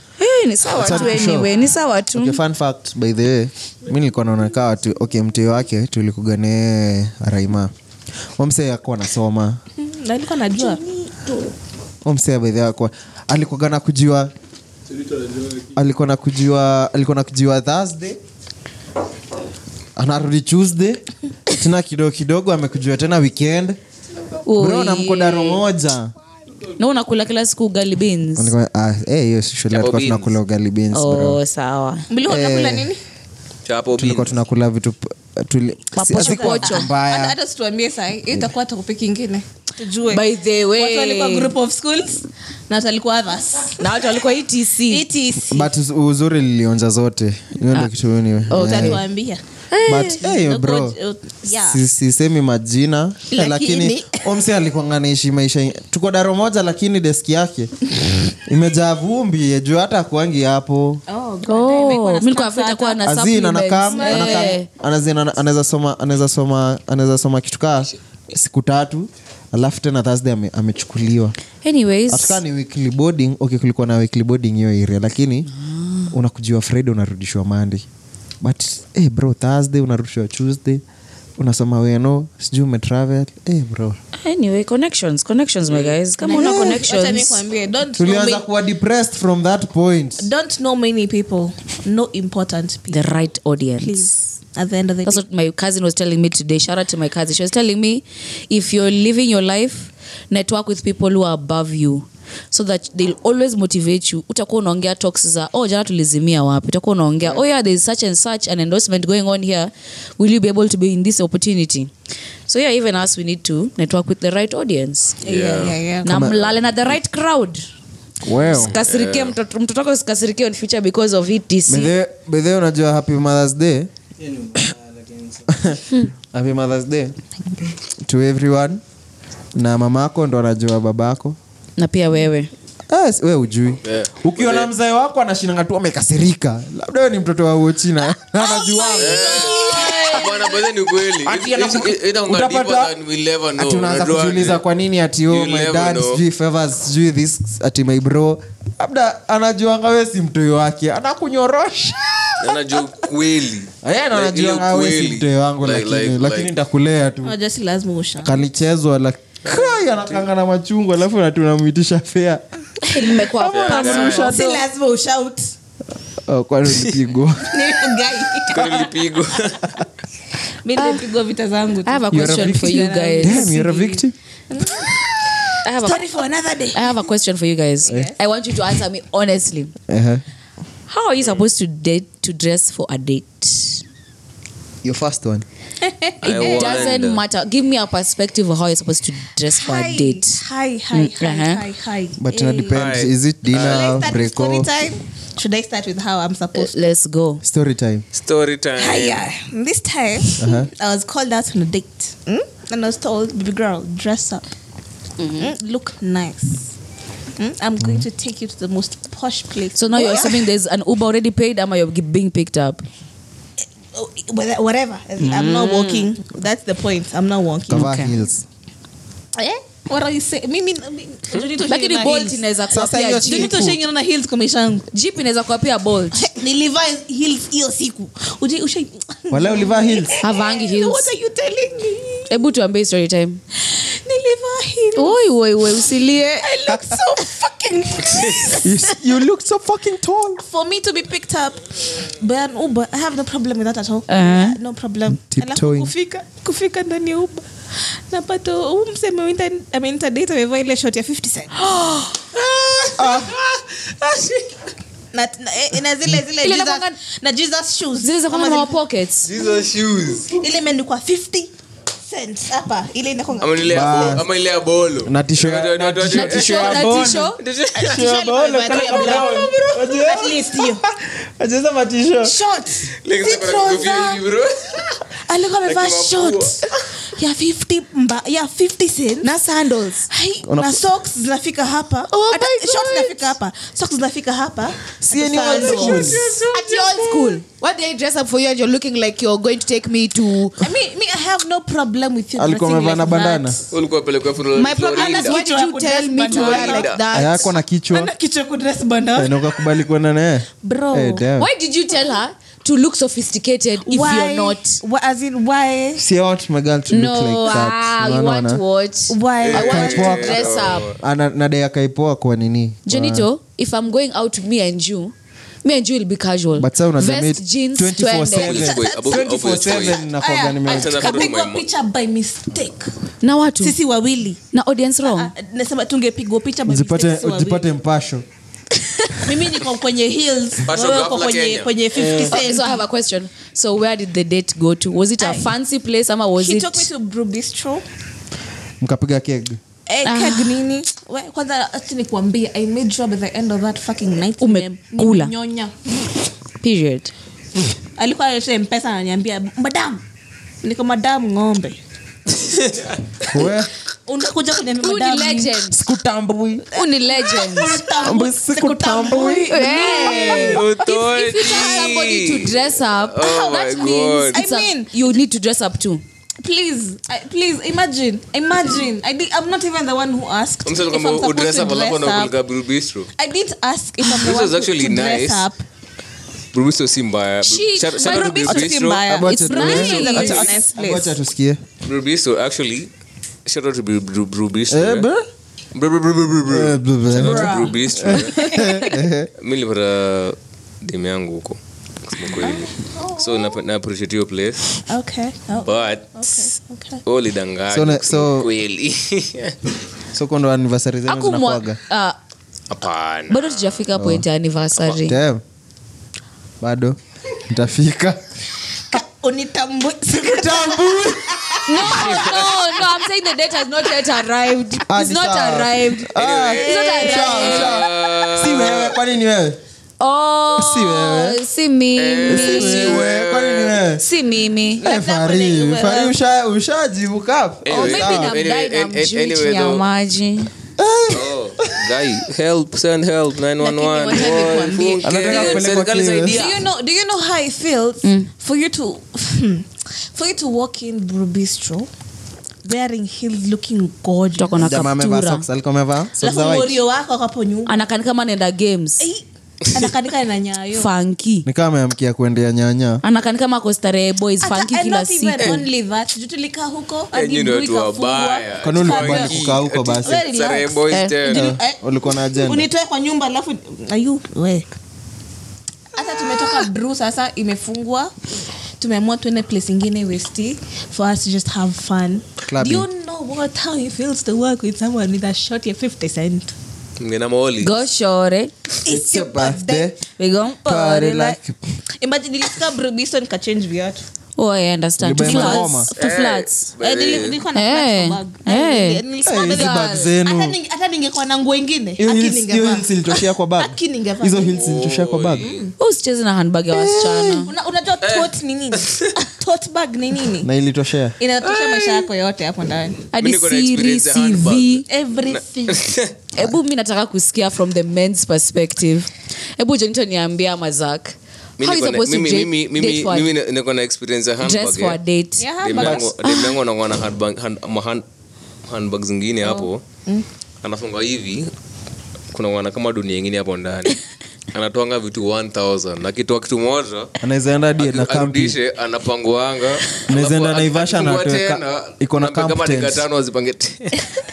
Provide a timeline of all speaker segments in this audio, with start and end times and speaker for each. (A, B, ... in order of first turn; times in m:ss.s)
0:00.2-0:02.4 A
0:00.8-0:01.5 B
0:00.8-0:01.7 C
0:02.1-0:07.7 B
0:08.4-0:09.6 B
0:09.8-0:11.2 C
0:12.0-0:14.3 B
0:15.7-0:18.2 B
0:20.0-0:23.8 B
0:24.5-0:25.6 A
0:24.6-0:26.1 B
0:26.8-0:28.5 A
0:28.4-0:31.4 B
0:29.7-0:30.3 D
0:30.9-0:32.1 A
0:32.1-0:33.0 C
0:32.2-0:32.9 B
0:33.7-0:34.4 D
0:34.0-0:37.4 B
0:36.0-0:36.9 A
0:36.2-0:43.9 C
0:40.1-0:41.5 A
0:43.8-0:45.0 A
0:44.9-0:45.7 C
0:45.4-0:49.0 B
0:48.5-0:49.0 A
0:48.5-0:49.4 C
0:49.7-0:50.2 A
0:49.8-0:51.0 B
0:50.0-0:51.8 C
0:51.5-0:57.7 B
0:53.3-0:54.2 C
0:58.5-1:01.0 B
1:01.1-1:03.0 C
1:01.5-1:04.7 A
1:03.0-1:11.4 B
1:03.9-1:04.5 C
1:11.6-1:12.4 A
1:12.1-1:15.5 B
1:15.5-1:16.1 A
1:16.1-1:17.8 B
1:18.4-1:20.8 B
1:21.4-1:24.0 B
1:24.2-1:27.4 A
1:25.7-1:26.0 D
1:26.2-1:28.4 C
1:26.4-1:26.7 B
1:28.0-1:30.3 B
1:30.2-1:33.1 C
1:32.9-1:34.2 A
1:33.8-1:35.2 C
1:35.1-1:51.9 A
1:52.5-1:55.2 A
1:55.2-1:55.8 D
1:55.2-1:56.3 C
1:56.0-1:57.6 A
1:56.0-1:56.5 B
1:58.2-1:58.7 B
1:58.4-1:59.4 D
1:58.5-2:01.9 A
2:01.7-2:03.9 B
2:05.5-2:07.2 B
2:08.0-2:08.8 B
2:09.6-2:11.4 B
2:11.8-2:12.5 A
2:12.9-2:19.8 B
2:13.8-2:14.7 D
2:18.5-2:20.4 A
2:19.0-2:24.6 D
2:19.3-2:20.2 C
2:21.2-2:22.9 B
2:23.6-2:32.8 B
2:25.3-2:26.2 D
2:32.4-2:36.5 D
2:33.8-2:37.4 B
2:37.2-2:38.4 C
2:38.2-2:42.4 B
2:42.8-2:44.6 A
2:43.5-2:44.3 D
2:43.5-2:45.5 C
2:46.2-2:47.7 B
2:47.5-2:48.9 C
2:48.5-2:49.6 D
2:50.6-2:57.0 C
2:50.8-2:51.0 A
2:51.8-2:53.6 A
2:52.1-2:54.2 B
2:55.6-2:56.0 A
2:56.8-2:59.7 A
2:57.8-2:58.2 C
2:59.9-3:00.2 B
3:00.9-3:03.8 A
3:04.8-3:05.4 B
3:05.8-3:06.9 C
3:06.2-3:07.2 D
3:06.4-3:10.4 A
3:09.5-3:12.8 C
3:10.9-3:11.6 A
3:12.2-3:14.7 B
3:12.7-3:14.0 D
3:13.5-3:16.8 C
3:16.5-3:17.4 A
3:17.4-3:18.0 B
3:18.2-3:19.2 D
3:18.8-3:24.4 C
3:20.4-3:20.7 B
3:25.2-3:25.5 A
3:25.4-3:26.7 C
3:27.4-3:30.5 C
3:27.8-3:28.1 B
3:29.8-3:32.8 A
3:33.6-3:38.0 C
3:35.2-3:36.1 A
3:37.7-3:38.4 B
3:37.7-3:38.2 A
3:39.4-3:42.4 C
3:41.6-3:43.6 A
3:42.7-3:43.8 B
3:43.2-3:44.8 C
3:44.9-3:46.3 A
3:46.2-3:52.4 C
3:49.3-3:50.1 B
3:50.2-3:51.1 A
3:52.3-3:53.4 A
3:53.6-3:55.2 C
3:55.0-3:56.5 A
3:56.4-3:59.0 C
3:58.6-4:00.4 B
4:00.4-4:14.4 C
4:04.1-4:04.6 A
4:05.1-4:05.9 B
4:11.6-4:12.1 A
4:13.0-4:13.3 B
4:15.1-4:18.8 C
4:16.4-4:17.0 A
4:18.0-4:19.3 A
4:19.3-4:20.3 D
4:19.9-4:20.2 B
4:20.4-4:24.1 C
4:23.4-4:28.1 D
4:23.7-4:24.3 B
4:25.0-4:32.4 B
4:26.1-4:27.4 A
4:27.7-4:30.8 C
4:32.2-4:34.2 C
4:33.0-4:35.0 D
4:35.2-4:39.3 C
4:35.6-4:36.6 D
4:39.2-4:40.1 A
4:40.1-4:46.4 C
4:40.4-4:40.8 B
4:42.1-4:43.3 A
4:45.0-4:46.3 B
4:45.6-4:47.0 D
4:46.5-4:50.7 A
4:50.6-4:53.7 C
4:52.4-4:53.6 B
4:53.7-4:55.4 D
4:54.5-4:56.9 C
4:55.0-4:57.5 A
4:56.3-4:57.0 D
4:57.1-4:58.1 B
4:57.9-4:59.3 C
4:59.2-5:01.5 B
5:00.6-5:01.3 C
5:01.4-5:04.8 A
5:03.8-5:06.0 C
5:06.0-5:08.6 B
5:06.9-5:10.9 A
5:09.1-5:10.1 C
5:09.4-5:11.0 D
5:09.6-5:13.3 B
5:12.9-5:18.5 A
5:16.6-5:21.1 B
5:18.3-5:19.2 C
5:18.4-5:20.0 D
5:20.2-5:22.9 C
5:20.6-5:21.6 D
5:23.2-5:23.8 A
5:23.6-5:24.4 C
5:24.5-5:25.3 A
5:25.0-5:27.7 C
5:26.6-5:28.2 B
5:29.1-5:32.8 C
5:30.7-5:31.7 D
5:31.9-5:32.4 B
5:32.3-5:36.9 A
5:35.2-5:35.5 C
5:36.4-5:37.8 C
5:38.8-5:39.6 B
5:39.9-5:45.9 C
5:40.0-5:40.6 A
5:44.4-5:45.3 A
5:46.6-5:47.1 A
5:48.0-5:50.0 C
5:50.6-5:51.8 C
5:52.5-5:52.9 D
5:53.3-5:53.7 B
5:54.1-5:55.6 C
5:54.8-5:55.8 A
5:55.7-5:56.6 B
5:56.7-5:57.8 A
5:56.7-6:00.6 C
5:58.0-6:00.6 B
5:59.4-6:03.3 A
6:00.3-6:04.4 D
6:03.2-6:04.9 C
6:04.0-6:06.0 A
6:06.4-6:12.3 C
6:10.6-6:13.1 D
6:13.2-6:15.6 C
6:14.0-6:15.5 D
6:16.5-6:19.1 D
6:17.4-6:18.6 A
6:18.0-6:21.2 C
6:18.5-6:21.6 B
6:19.2-6:20.5 A
6:21.8-6:22.9 D
6:23.5-6:25.1 D
6:24.7-6:25.3 B
6:25.8-6:28.4 D
6:26.5-6:29.3 B
6:27.1-6:28.8 C
6:29.4-6:34.7 D
6:32.4-6:33.6 C
6:34.9-6:37.0 C
6:35.6-6:36.5 D
6:37.0-6:39.6 D
6:37.7-6:38.5 B
6:40.1-6:41.8 B
6:41.1-6:42.2 A
6:42.7-6:43.8 D
6:43.3-6:45.2 A
6:43.9-6:44.3 B
6:44.9-6:45.4 B
6:46.6-6:47.0 B
6:47.5-6:48.2 B
6:48.9-6:52.8 C
6:50.2-6:51.4 B
6:51.7-6:57.8 A
6:51.9-6:52.5 D
6:54.9-6:59.6 B
6:56.2-6:56.6 D
6:56.5-6:57.7 C
6:57.3-6:59.0 D
7:00.0-7:03.0 A
7:00.6-7:01.4 B
7:02.0-7:03.8 D
7:02.3-7:04.0 B
7:04.0-7:04.8 A
7:04.8-7:06.2 C
7:04.8-7:08.3 B
7:07.6-7:09.8 D
7:07.7-7:10.5 A
7:10.8-7:11.9 B
7:11.1-7:16.6 D
7:13.6-7:15.4 A
7:14.1-7:15.5 C
7:15.0-7:16.4 B
7:16.3-7:21.9 C
7:18.0-7:18.3 A
7:22.6-7:24.8 C
7:24.4-7:25.4 A
7:24.6-7:26.8 B
7:26.2-7:27.9 C
7:27.7-7:29.1 A
7:29.0-7:30.9 C
7:30.8-7:31.5 A
7:31.4-7:33.0 B
7:33.0-7:35.6 A
7:34.4-7:39.3 C
7:35.4-7:35.6 D
7:37.1-7:41.5 D
7:38.6-7:40.2 B
7:40.0-7:44.7 C
7:41.3-7:42.7 B
7:46.0-7:56.5 C
7:52.5-7:52.9 B
7:57.0-7:57.8 D
7:57.6-7:58.5 A
7:58.8-7:59.9 C
7:58.9-8:00.0 B
8:00.2-8:01.4 A
8:00.6-8:01.6 B
8:02.0-8:04.0 C
8:04.4-8:06.7 A
8:05.0-8:05.9 B
8:05.2-8:05.9 C
8:06.0-8:07.4 D
8:06.8-8:14.6 C
8:07.6-8:10.1 A
8:09.2-8:10.6 B
8:12.0-8:15.5 B
8:14.5-8:15.7 D
8:15.4-8:15.7 C
8:15.8-8:17.5 A
8:16.7-8:17.5 B
8:17.5-8:20.5 C
8:18.0-8:19.1 D
8:20.4-8:21.2 B
8:21.2-8:23.0 C
8:21.4-8:22.1 D
8:23.1-8:24.8 A
8:23.2-8:26.1 D
8:24.9-8:26.0 C
8:26.3-8:33.3 A
8:31.6-8:35.0 D
8:34.4-8:35.5 A
8:35.4-8:36.4 C
8:35.6-8:38.0 D
8:35.8-8:36.1 B
8:38.7-8:39.8 D
8:40.6-8:41.5 D
8:42.3-8:44.0 D
8:44.5-8:47.1 D
8:47.2-8:48.6 B
8:47.8-8:54.1 D
8:50.1-8:53.0 B